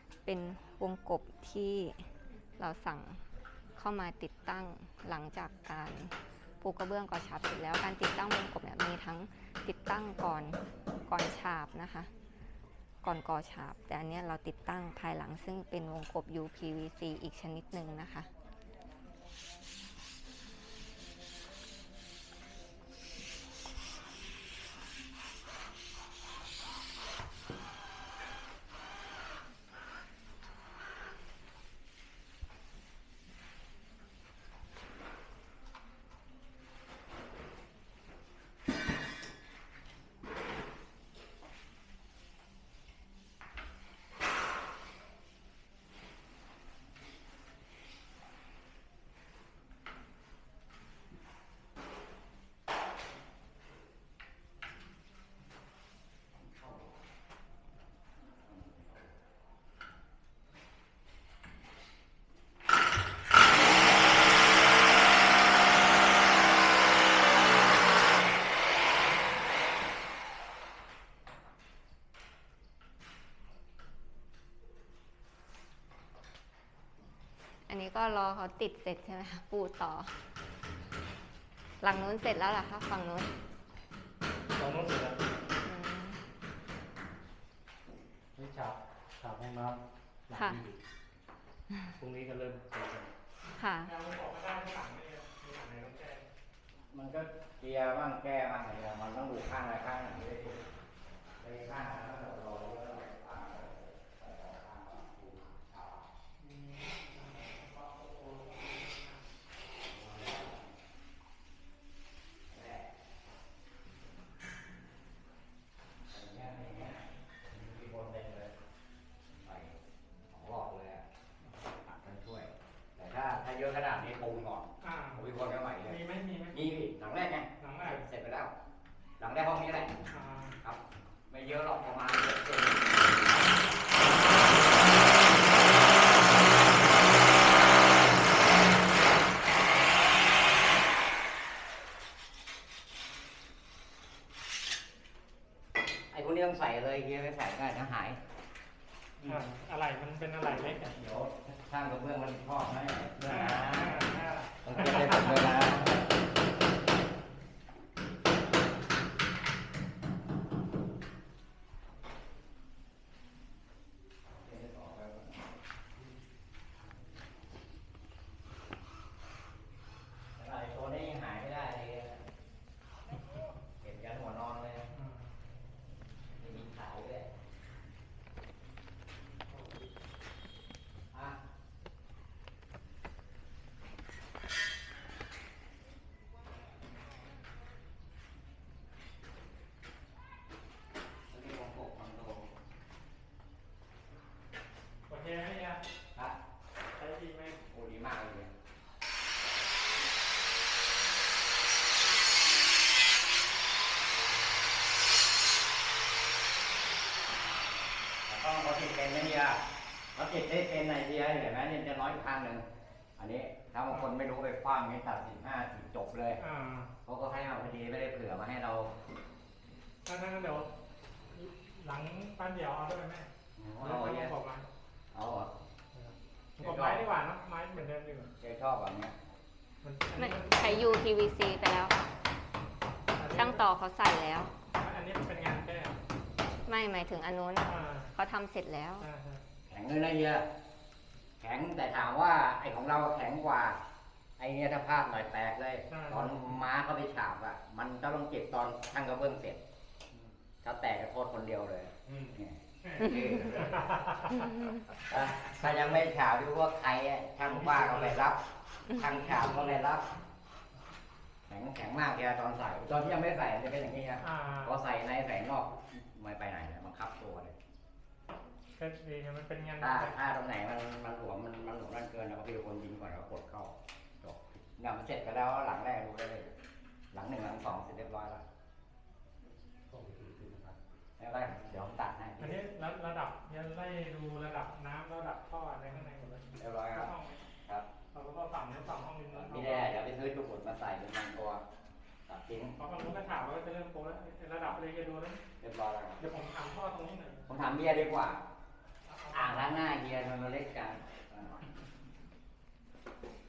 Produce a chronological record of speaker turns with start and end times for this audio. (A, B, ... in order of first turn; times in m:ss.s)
0:00.2-0:03.2 A
0:03.8-0:12.1 A
0:13.0-0:18.3 A
0:56.6-0:56.9 B
0:58.5-0:59.0 B
1:17.6-1:20.1 A
1:21.8-1:23.3 A
1:24.5-1:25.3 C
1:25.6-1:26.2 A
1:28.4-1:30.8 C
1:30.3-1:30.6 A
1:31.9-1:33.1 C
1:33.6-1:33.9 A
1:33.8-1:36.2 D
1:36.9-1:40.6 B
1:41.4-1:46.1 B
1:46.4-1:49.2 D
1:49.9-1:50.6 B
1:52.5-1:52.9 B
1:56.1-1:58.5 B
1:59.4-1:59.8 B
2:00.3-2:01.0 B
2:01.7-2:06.0 B
2:04.8-2:05.2 D
2:05.8-2:06.6 D
2:06.5-2:08.5 B
2:07.6-2:08.0 D
2:09.2-2:10.0 B
2:10.1-2:10.6 D
2:10.6-2:13.4 B
2:26.1-2:28.2 B
2:29.2-2:31.0 D
2:30.9-2:34.1 B
2:33.2-2:35.4 D
2:34.6-2:36.1 B
2:44.3-2:45.3 B
2:50.4-2:52.2 B
2:53.8-2:54.8 B
2:54.9-2:55.3 D
2:56.4-2:57.3 B
3:01.1-3:01.4 B
3:11.3-3:12.5 B
3:15.1-3:15.8 D
3:17.0-3:17.6 D
3:17.7-3:18.5 B
3:28.2-3:29.6 B
3:30.1-3:32.6 B
3:33.2-3:36.4 B
3:36.4-3:36.9 D
3:37.0-3:38.9 B
3:40.0-3:40.7 D
3:41.3-3:43.3 D
3:43.6-3:44.3 B
3:43.8-3:44.7 D
3:45.1-3:45.5 B
3:45.9-3:48.3 D
3:46.6-3:47.1 B
3:48.4-3:49.1 B
3:49.8-3:50.9 D
3:50.2-3:52.1 A
3:53.2-3:53.6 D
3:53.3-3:54.5 A
3:54.7-3:56.0 D
3:56.6-3:59.1 A
3:57.6-3:58.1 D
3:59.0-3:59.4 D
3:59.7-4:00.5 B
4:01.4-4:03.8 B
4:04.4-4:09.6 B
4:05.9-4:06.6 D
4:10.6-4:13.8 B
4:12.1-4:12.4 C
4:12.8-4:14.5 D
4:14.4-4:14.8 A
4:15.0-4:20.1 B
4:21.5-4:27.5 B
4:24.2-4:24.8 D
4:28.8-4:30.1 D
4:29.8-4:36.5 B
4:37.1-4:38.4 B
4:39.9-4:40.8 C
4:41.2-4:42.6 B
4:42.4-4:47.4 D
4:46.6-4:47.1 B
4:48.1-4:49.9 D
4:49.3-4:51.6 B
4:52.3-4:52.8 B
4:52.8-4:55.4 D
4:55.6-4:56.2 B
4:56.2-4:57.5 D
4:57.5-4:58.4 B
4:59.0-4:59.7 D
4:59.3-5:01.6 B